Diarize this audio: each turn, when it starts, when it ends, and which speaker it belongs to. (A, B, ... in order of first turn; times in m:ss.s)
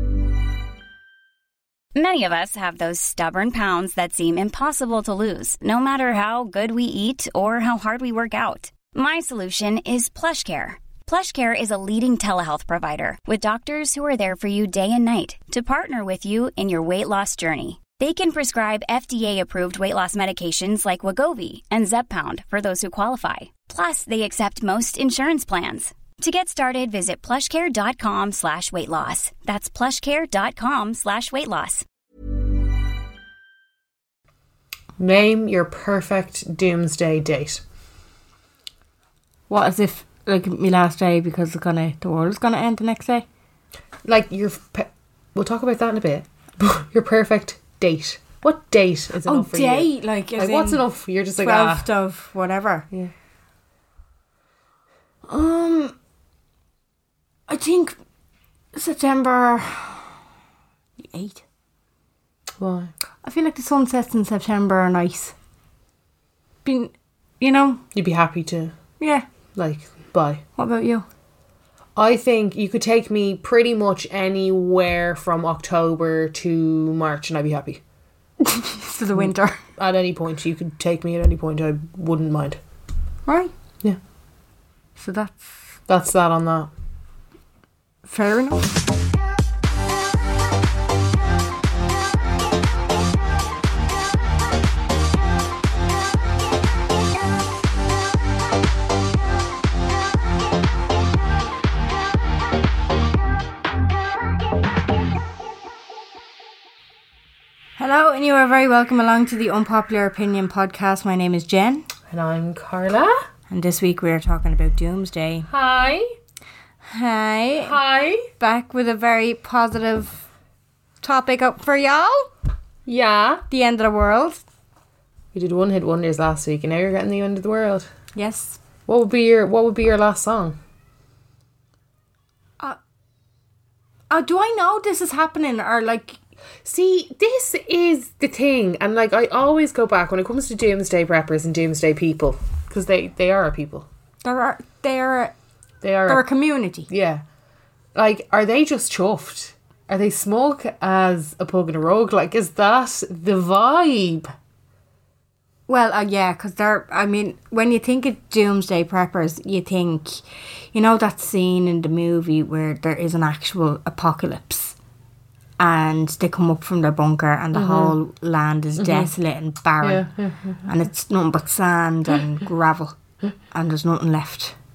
0:02.0-0:31.8 A
0:35.0-0:37.6 B
0:39.5-0:43.2 C
0:44.0-0:51.9 B
0:49.2-0:50.8 C
0:51.4-0:52.9 C
0:55.3-0:55.9 C
0:57.5-0:58.0 C
0:58.7-1:00.2 C
1:01.0-1:01.4 C
1:02.6-1:02.9 B
1:03.2-1:05.3 C
1:06.6-1:07.8 C
1:07.9-1:08.8 B
1:09.0-1:09.2 C
1:09.6-1:10.4 B
1:10.6-1:11.1 C
1:12.0-1:17.8 B
1:18.4-1:19.6 C
1:19.2-1:22.6 B
1:23.3-1:23.5 C
1:25.0-1:25.6 C
1:25.9-1:26.7 B
1:28.1-1:28.7 C
1:47.8-1:51.9 C
1:52.1-1:53.2 B
1:53.5-1:55.5 C
1:55.5-1:56.1 B
1:56.8-1:57.8 C
1:57.6-1:58.3 B
1:58.4-2:00.2 C
2:01.0-2:02.3 C
2:02.9-2:03.4 B
2:03.5-2:04.4 C
2:05.3-2:07.9 B
2:08.2-2:08.6 C
2:08.9-2:10.6 B
2:14.1-2:16.2 C
2:16.6-2:23.9 B
2:24.2-2:25.3 C
2:25.8-2:26.3 B
2:26.1-2:26.9 C
2:26.9-2:27.2 B
2:28.0-2:34.3 B
2:35.7-2:44.8 C
2:45.6-2:50.0 C
2:47.5-2:48.0 B
2:48.8-2:49.1 B
2:49.8-2:50.7 B
2:50.7-2:53.0 C
2:53.5-2:54.6 C